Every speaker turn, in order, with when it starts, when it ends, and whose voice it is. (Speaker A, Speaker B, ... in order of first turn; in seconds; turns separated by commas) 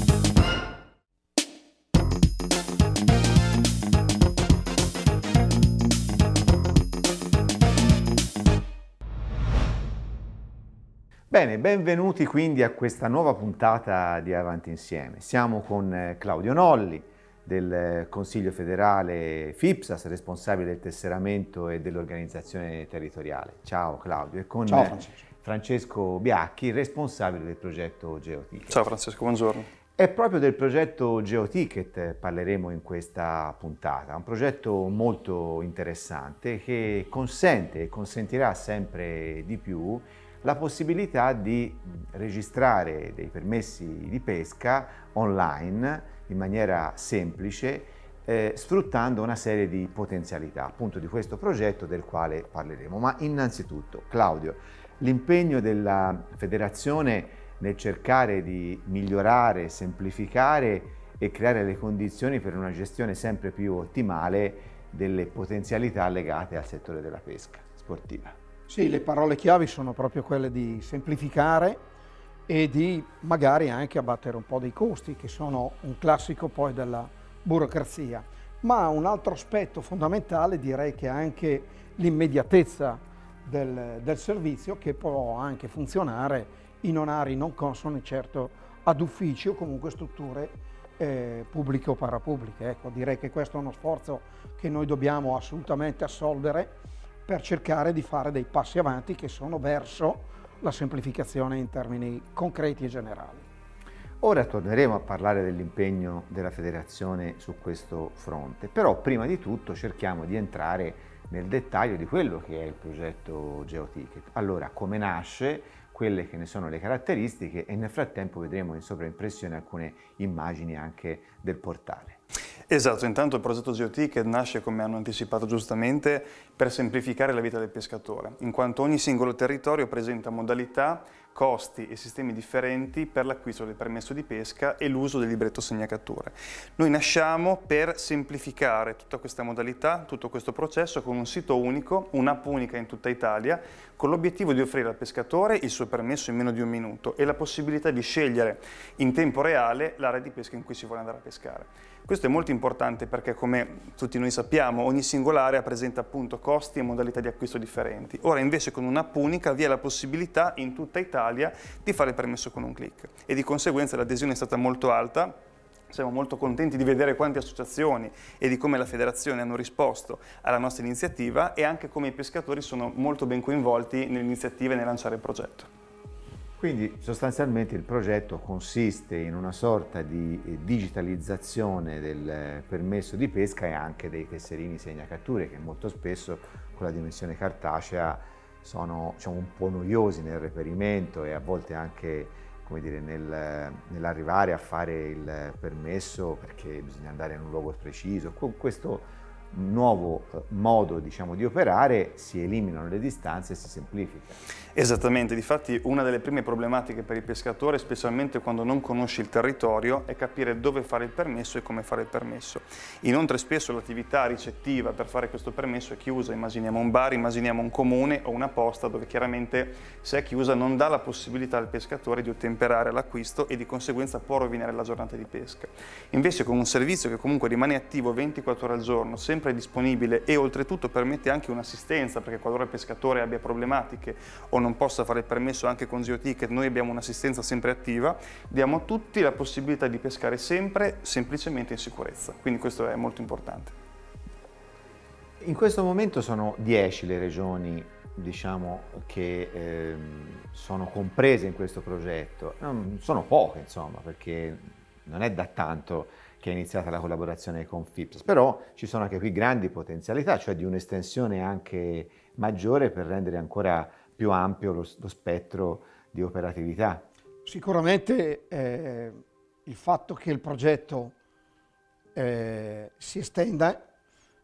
Speaker A: 11.3-28.8, Speaker B: 24.7-25.2, Speaker C: 28.7-29.7, Speaker A: 30.0-68.4, Speaker B: 68.7-71.8, Speaker B: 72.5-96.8, Speaker B: 97.3-103.5, Speaker A: 104.2-122.2, Speaker C: 122.7-165.4, Speaker C: 165.9-175.7, Speaker A: 176.6-204.4, Speaker C: 204.8-243.8, Speaker A: 245.4-267.1, Speaker B: 267.4-271.2, Speaker B: 272.1-273.8